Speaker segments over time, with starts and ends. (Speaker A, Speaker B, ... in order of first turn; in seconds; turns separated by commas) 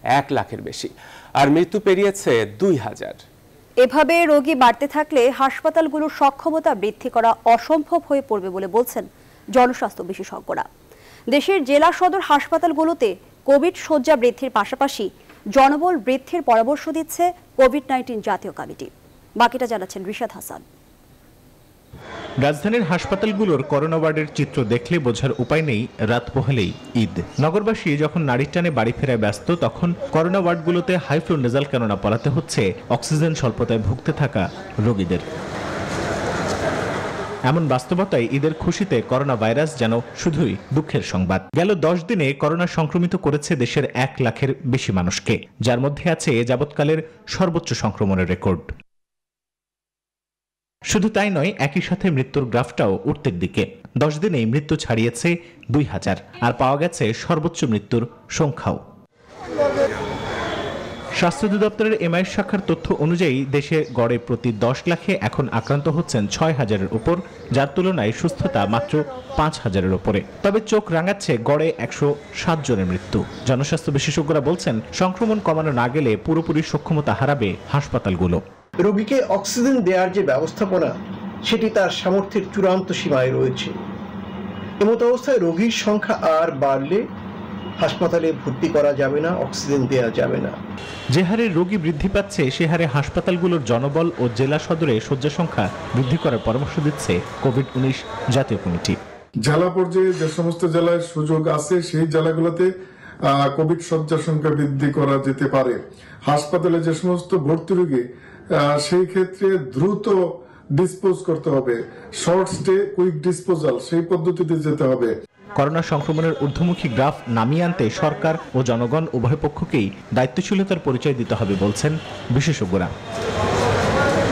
Speaker A: 0.1-3.2, Speaker B: 3.8-10.7, Speaker B: 11.3-20.6, Speaker C: 22.4-35.2, Speaker C: 37.5-48.7, Speaker C: 50.9-58.8, Speaker C: 61.2-78.4, Speaker D: 78.8-83.7, Speaker D: 84.8-87.0, Speaker D: 87.8-90.5, Speaker C: 91.1-99.0, Speaker E: 99.4-102.7, Speaker E: 103.3-108.0, Speaker E: 108.5-110.2, Speaker E: 110.8-115.1, Speaker C: 115.5-122.9